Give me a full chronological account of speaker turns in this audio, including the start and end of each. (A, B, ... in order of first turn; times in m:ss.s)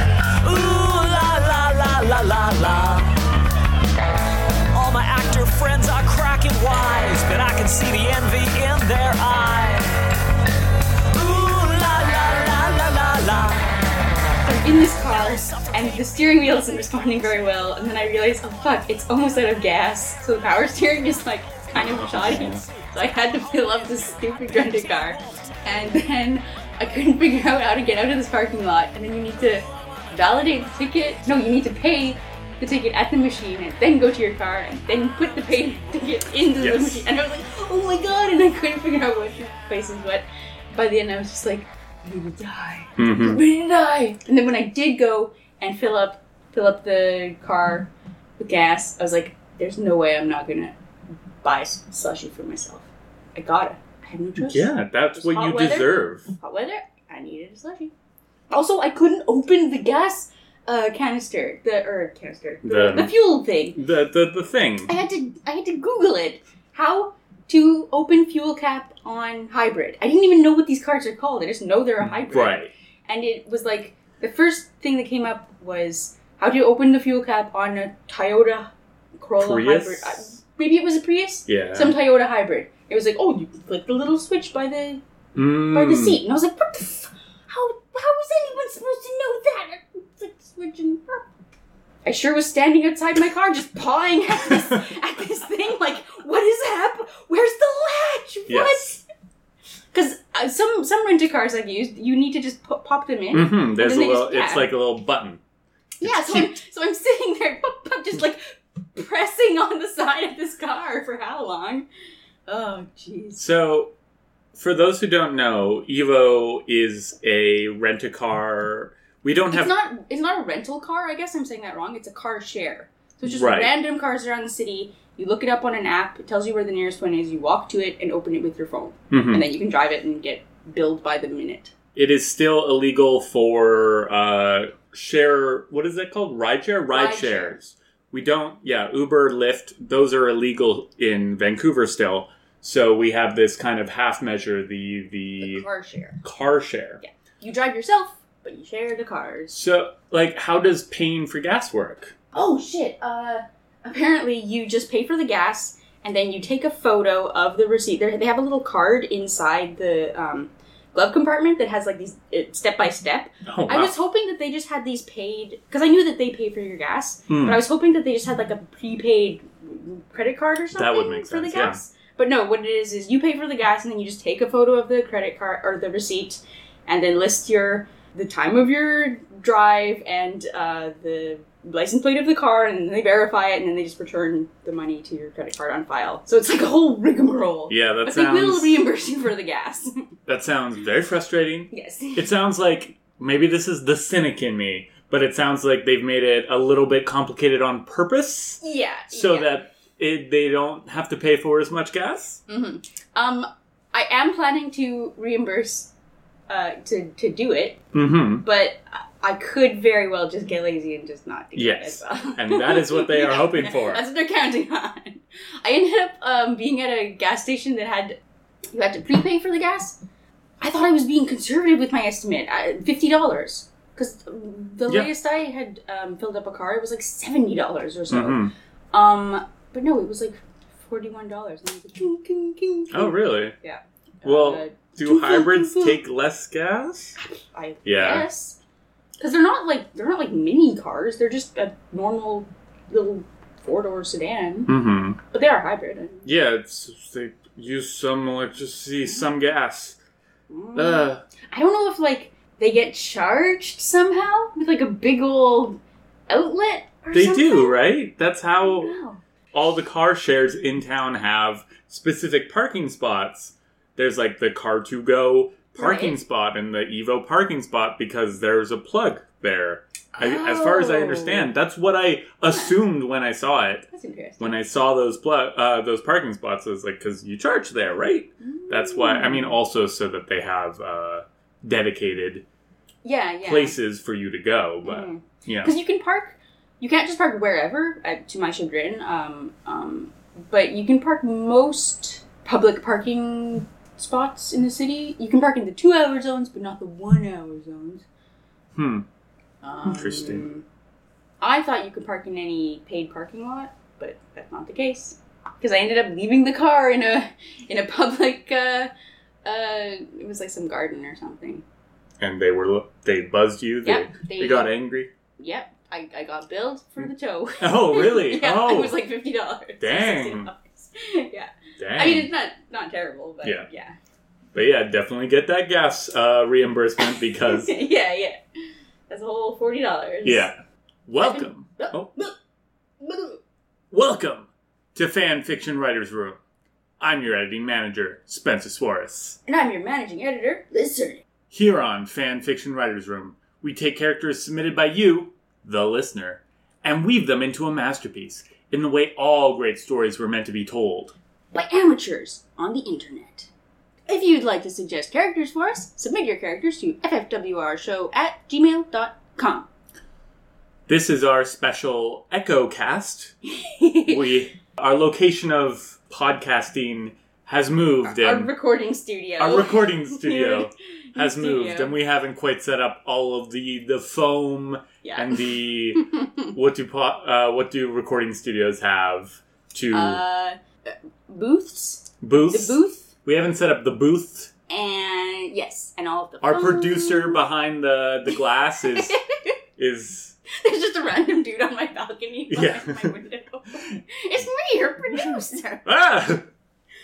0:00.4-0:03.1 A
0:04.7-0:09.9 A
0:11.1-0:13.8 A
0:14.4-0:50.7 B
0:15.2-0:15.8 A
0:21.8-0:22.6 C
0:36.6-0:37.0 C
0:43.0-0:43.4 C
0:51.4-0:57.9 B
0:54.4-0:56.3 C
0:58.5-1:03.8 B
1:02.6-1:03.1 C
1:03.7-1:04.9 C
1:04.8-1:25.0 B
1:12.0-1:12.7 C
1:19.4-1:20.4 C
1:21.5-1:22.0 C
1:25.3-1:26.2 C
1:25.7-1:31.2 B
1:32.0-1:39.0 B
1:34.5-1:34.9 C
1:38.5-1:38.8 C
1:39.9-1:44.7 B
1:43.3-1:45.4 C
1:46.0-1:51.8 B
1:46.0-1:46.6 C
1:52.5-1:53.4 B
1:53.4-1:53.9 C
1:54.5-1:59.7 C
1:59.5-2:11.7 B
2:03.2-2:03.7 C
2:09.1-2:09.4 C
2:11.9-2:25.6 C
2:16.9-2:17.6 B
2:25.4-2:26.2 B
2:26.2-2:27.0 C
2:27.0-2:29.6 B
2:29.5-2:32.1 C
2:32.3-3:09.9 B
2:43.4-2:43.9 C
2:47.3-2:47.6 C
2:50.7-2:51.8 C
3:07.7-3:08.8 C
3:10.3-3:22.4 C
3:11.7-3:12.3 B
3:18.6-3:19.5 B
3:22.5-3:25.9 B
3:26.5-3:27.8 B
3:27.9-3:28.4 C
3:28.4-3:38.2 B
3:31.5-3:34.0 C
3:38.7-3:40.0 B
3:40.6-3:48.4 B
3:48.1-3:48.5 C
3:48.9-3:56.0 B
3:52.9-3:53.5 C
3:54.2-3:57.2 C
3:57.2-3:58.6 B
3:57.8-3:58.3 C
3:59.2-4:04.7 B
4:04.7-4:05.2 C
4:05.3-4:06.3 B
4:06.2-4:10.0 C
4:10.5-4:17.8 B
4:10.7-4:11.2 C
4:17.1-4:18.9 C
4:18.6-4:19.2 B
4:19.5-4:33.8 C
4:25.7-4:26.2 B
4:30.1-4:31.5 B
4:32.5-4:32.8 B
4:33.9-4:34.6 B
4:34.4-4:42.4 C
4:38.4-4:39.6 B
4:43.0-4:43.7 B
4:43.4-4:45.7 C
4:44.8-4:58.0 B
4:58.7-4:59.0 C
4:59.6-5:00.6 B
4:59.8-5:00.4 C
5:01.4-5:08.9 B
5:09.4-5:11.6 B
5:12.2-5:15.1 C
5:13.8-5:14.7 B
5:15.4-5:23.9 B
5:17.6-5:19.0 C
5:19.8-5:20.5 C
5:21.8-5:22.3 C
5:24.5-5:27.7 C
5:27.0-5:28.4 B
5:29.1-5:30.5 B
5:30.2-5:30.5 C
5:31.1-5:32.1 C
5:31.2-5:32.3 B
5:33.0-5:33.4 B
5:33.9-5:36.4 C
5:37.0-5:39.4 C
5:39.5-5:41.2 B
5:41.5-5:51.1 C
5:51.5-5:53.5 B
5:54.1-5:59.7 B
6:00.9-6:03.3 C
6:03.6-6:04.2 B
6:04.0-6:08.5 C
6:08.0-6:12.0 B
6:09.4-6:20.2 C
6:15.0-6:16.5 B
6:19.9-6:23.1 B
6:22.2-6:24.5 C
6:24.7-6:27.4 B
6:26.4-6:29.2 C
6:28.8-6:29.5 B
6:29.8-6:30.4 C
6:30.5-6:35.9 B
6:32.5-6:33.1 C
6:35.1-6:36.4 C